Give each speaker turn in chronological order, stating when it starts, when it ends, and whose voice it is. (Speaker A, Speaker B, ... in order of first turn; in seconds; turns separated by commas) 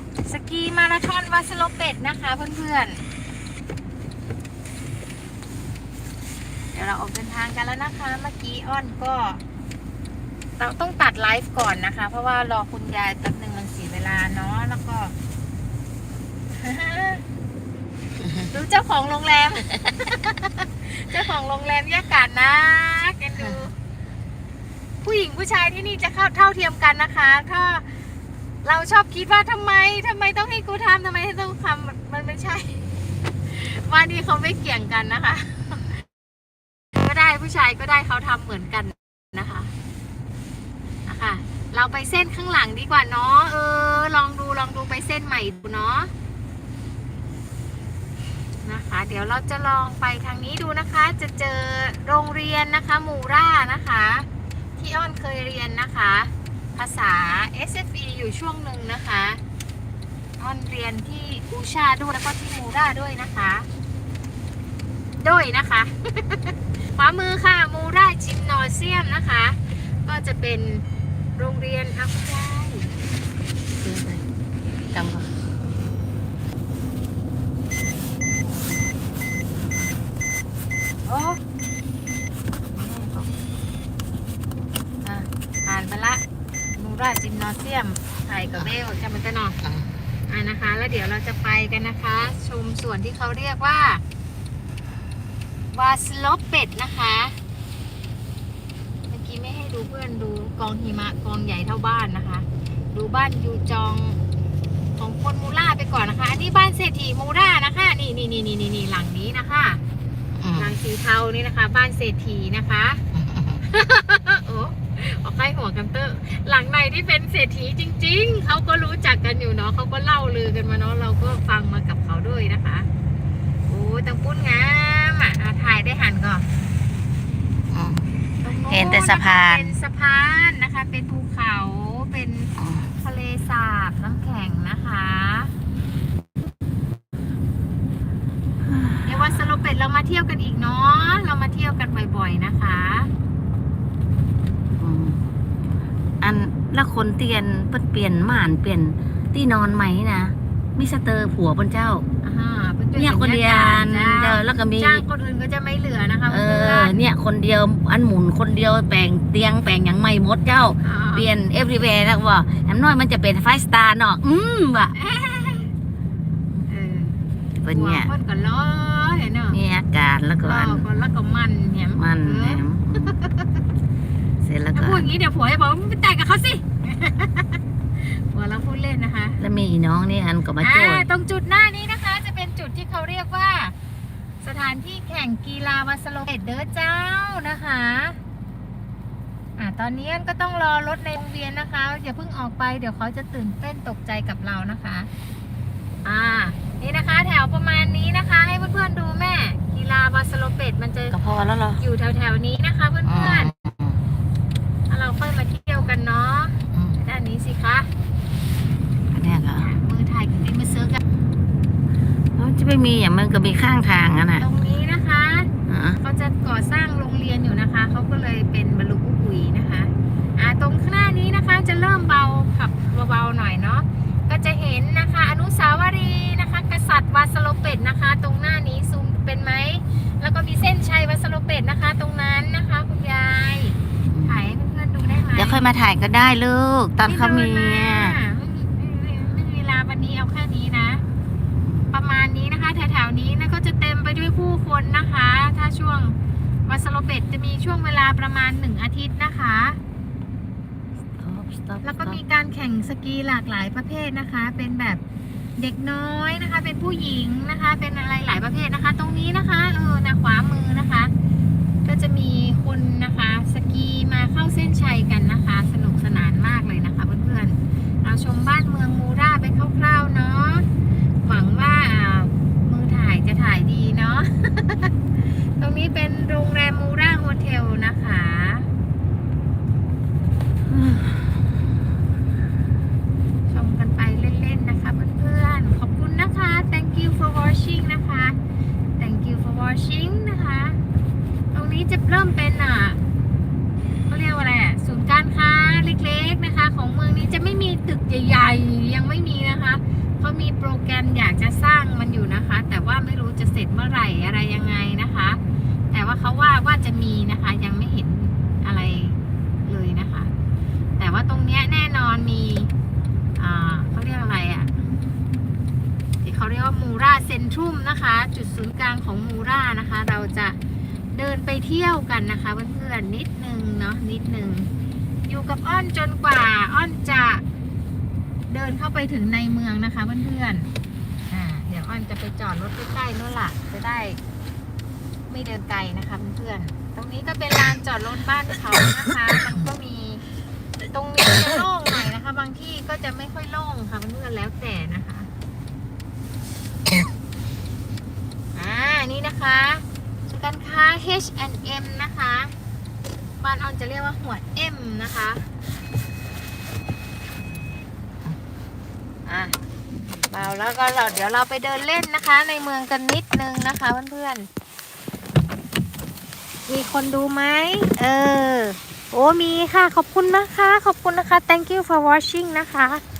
Speaker A: 0.2-3.0, Speaker A: 6.7-9.4, Speaker A: 10.6-15.1, Speaker A: 16.5-17.2, Speaker A: 18.5-23.7, Speaker A: 25.0-27.9, Speaker A: 28.6-32.8, Speaker A: 33.5-36.0, Speaker A: 36.9-39.7, Speaker A: 41.0-46.1, Speaker A: 48.6-54.3, Speaker A: 54.8-59.4, Speaker A: 60.4-63.7, Speaker A: 65.2-70.8, Speaker A: 71.4-72.9, Speaker B: 73.8-74.2, Speaker B: 74.9-75.3, Speaker A: 81.0-81.4, Speaker B: 82.7-83.3, Speaker A: 85.0-86.2, Speaker A: 86.7-89.6, Speaker A: 90.3-94.0, Speaker A: 95.7-97.3, Speaker A: 99.1-104.2, Speaker A: 105.0-109.8, Speaker B: 110.4-110.7, Speaker A: 110.5-113.0, Speaker B: 113.1-113.6, Speaker A: 113.7-122.9, Speaker A: 123.7-126.5, Speaker B: 127.7-128.0, Speaker A: 128.4-135.5, Speaker B: 128.7-129.7, Speaker B: 132.6-132.9, Speaker B: 138.6-139.1, Speaker A: 139.0-143.1, Speaker B: 144.8-145.2, Speaker B: 146.2-152.1, Speaker A: 152.2-157.0, Speaker B: 152.9-155.0, Speaker B: 156.3-164.9, Speaker A: 160.8-161.3, Speaker A: 164.9-165.7, Speaker A: 166.7-167.2, Speaker B: 167.6-168.1, Speaker A: 167.7-169.6, Speaker B: 169.5-170.8, Speaker A: 170.4-173.5, Speaker B: 172.0-173.2, Speaker B: 174.4-175.1, Speaker A: 174.7-179.4, Speaker B: 179.4-181.1, Speaker A: 180.6-183.7, Speaker A: 184.4-188.2, Speaker A: 189.6-195.1, Speaker A: 196.0-201.2, Speaker B: 201.1-201.8, Speaker A: 201.8-203.5, Speaker B: 203.0-204.0, Speaker A: 204.9-207.9, Speaker B: 206.7-207.0, Speaker B: 209.1-209.7, Speaker A: 209.5-211.0, Speaker B: 212.3-214.4, Speaker A: 214.4-215.5, Speaker B: 215.7-216.0, Speaker A: 216.0-235.6, Speaker B: 234.1-234.4, Speaker B: 235.3-238.2, Speaker A: 237.1-241.0, Speaker B: 241.6-241.9, Speaker A: 241.9-249.8, Speaker B: 251.2-252.2, Speaker A: 251.8-255.0, Speaker A: 255.6-261.1, Speaker A: 261.9-270.6, Speaker A: 271.2-274.9, Speaker A: 275.6-278.7, Speaker B: 280.7-281.0, Speaker A: 283.5-288.4, Speaker A: 289.0-290.8, Speaker A: 291.5-293.0, Speaker A: 294.1-305.4, Speaker A: 305.9-310.3, Speaker A: 311.0-312.7, Speaker A: 313.4-314.7, Speaker A: 316.2-320.6, Speaker A: 321.1-324.7, Speaker A: 325.3-327.4, Speaker A: 328.5-330.7, Speaker A: 331.3-334.2, Speaker A: 335.3-340.2, Speaker A: 340.9-345.3, Speaker A: 348.5-352.5, Speaker A: 353.4-355.4, Speaker A: 359.3-359.5, Speaker A: 360.1-364.5, Speaker A: 366.7-373.0